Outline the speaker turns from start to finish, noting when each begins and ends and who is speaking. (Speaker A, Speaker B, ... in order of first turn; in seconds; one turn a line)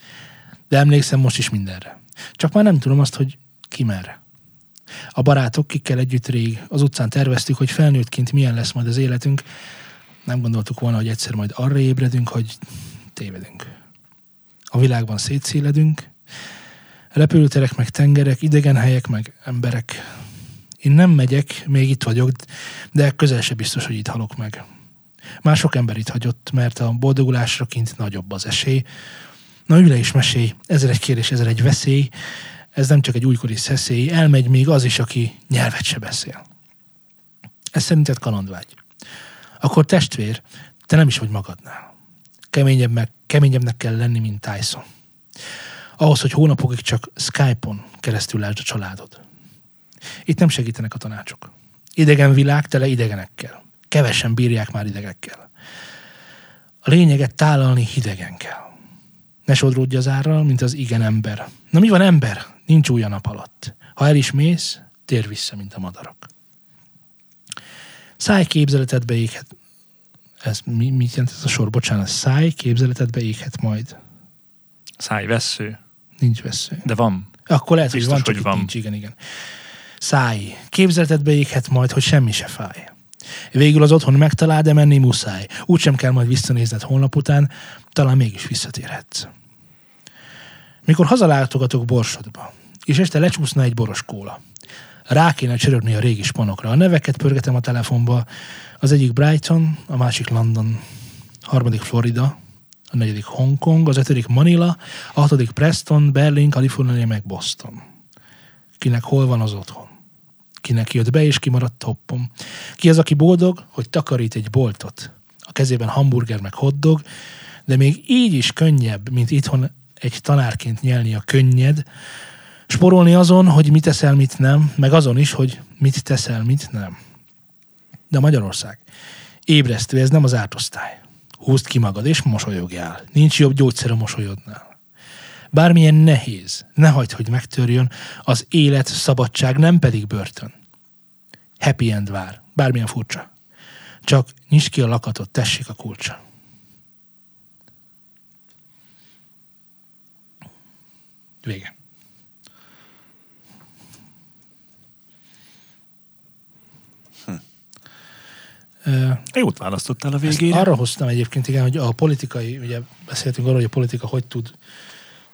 Speaker A: 0.7-4.2
Speaker A: 5.1-9.4
Speaker A: 10.2-13.7
Speaker A: 14.7-16.1
Speaker A: 17.1-20.1
Speaker A: 20.8-24.6
Speaker A: 25.4-28.9
Speaker A: 29.7-32.1
Speaker A: 32.7-36.4
Speaker A: 37.7-38.8
Speaker A: 39.6-41.9
Speaker A: 42.5-44.8
Speaker A: 46.0-49.2
Speaker A: 50.3-55.5
Speaker A: 56.8-58.7
Speaker A: 59.5-66.3
Speaker A: 68.2-69.5
Speaker A: 70.4-74.0
Speaker B: 75.0-75.8
Speaker A: 76.2-76.9
Speaker B: 76.8-77.3
Speaker A: 77.5-79.2
Speaker B: 77.9-78.7
Speaker A: 80.0-82.9
Speaker A: 83.5-89.3
Speaker A: 90.8-94.4
Speaker A: 95.1-98.3
Speaker A: 98.8-100.8
Speaker A: 101.4-102.3
Speaker A: 102.9-107.8
Speaker A: 108.8-109.9
Speaker A: 110.6-117.0
Speaker A: 117.7-121.8
Speaker A: 122.7-127.0
Speaker A: 128.1-128.8
Speaker A: 129.5-134.7
Speaker A: 135.5-140.5
Speaker A: 141.6-143.3
Speaker A: 144.0-146.2
Speaker A: 151.4-151.7
Speaker A: 158.8-159.2
Speaker B: 159.3-160.7
Speaker A: 160.3-164.5